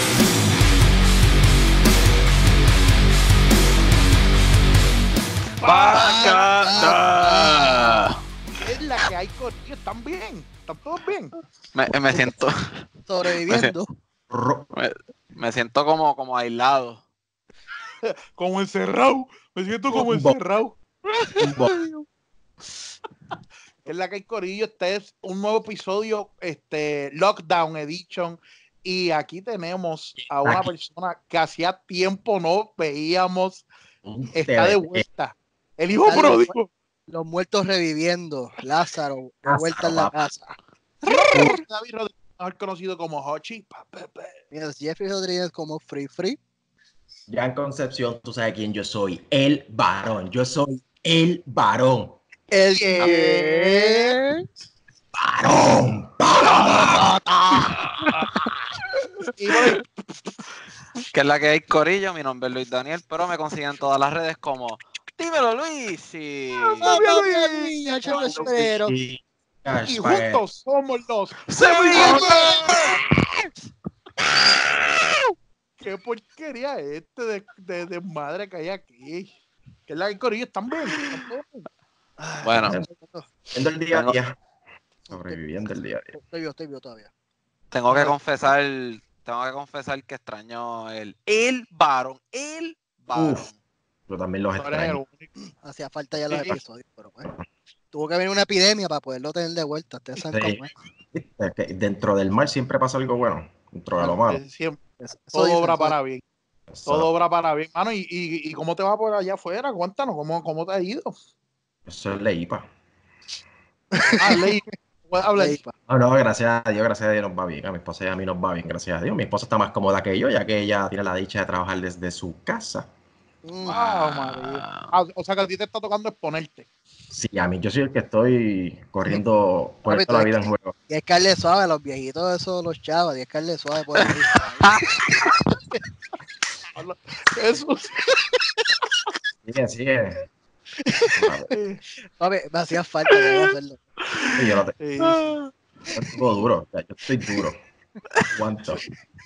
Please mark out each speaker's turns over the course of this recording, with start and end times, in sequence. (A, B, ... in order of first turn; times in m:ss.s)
0:05.6-0:06.5 A
0:05.6-0:08.2 B
0:05.9-0:08.1 C
0:08.6-0:11.4 A
0:11.8-0:13.7 B
0:13.1-0:14.0 C
0:14.3-0:14.7 D
0:14.7-0:17.0 B
0:18.0-0:20.8 A
0:19.9-0:20.4 D
0:21.4-0:21.8 D
0:21.5-0:22.0 C
0:23.8-0:33.7 A
0:30.4-0:30.7 D
0:34.0-0:35.0 D
0:34.3-0:36.7 A
0:36.1-0:36.6 C
0:37.1-0:41.6 C
0:39.4-0:40.3 D
0:41.0-0:44.4 A
0:41.3-0:41.6 D
0:44.5-0:46.4 C
0:47.3-0:52.2 D
0:52.5-0:54.4 C
0:53.0-0:53.3 B
0:53.0-0:53.6 A
0:55.1-0:57.2 D
0:56.8-0:57.8 C
0:59.4-0:59.8 A
1:01.1-1:07.0 B
1:06.7-1:08.6 A
1:06.8-1:08.9 C
1:08.3-1:10.4 D
1:09.9-1:12.8 A
1:11.5-1:13.0 B
1:11.9-1:13.0 C
1:15.8-1:19.3 A
1:19.9-1:21.6 A
1:22.2-1:23.3 C
1:22.4-1:22.8 B
1:23.5-1:24.4 D
1:25.1-1:25.4 C
1:25.1-1:26.1 D
1:26.1-1:27.1 C
1:27.7-1:33.6 B
1:27.9-1:28.2 A
1:33.2-1:33.5 D
1:34.1-1:35.0 D
1:34.6-1:35.3 A
1:35.6-1:37.3 C
1:37.9-1:40.7 C
1:40.3-1:44.4 D
1:44.0-1:44.8 A
1:45.0-1:45.9 C
1:45.3-1:46.2 A
1:46.7-1:47.1 D
1:46.9-1:51.2 A
1:51.9-1:52.7 D
1:53.9-1:54.5 C
1:54.2-1:55.6 A
1:55.4-1:55.7 C
1:55.9-2:02.9 D
2:03.4-2:03.8 C
2:03.6-2:04.9 B
2:03.6-2:06.7 A
2:07.1-2:10.8 D
2:09.9-2:10.3 C
2:10.9-2:14.9 C
2:14.6-2:15.4 B
2:16.8-2:18.2 A
2:19.4-2:20.2 D
2:20.9-2:21.4 C
2:21.1-2:21.5 D
2:21.5-2:21.8 A
2:22.2-2:23.8 C
2:24.2-2:25.4 A
2:24.4-2:24.8 D
2:25.9-2:27.6 D
2:28.3-2:28.8 D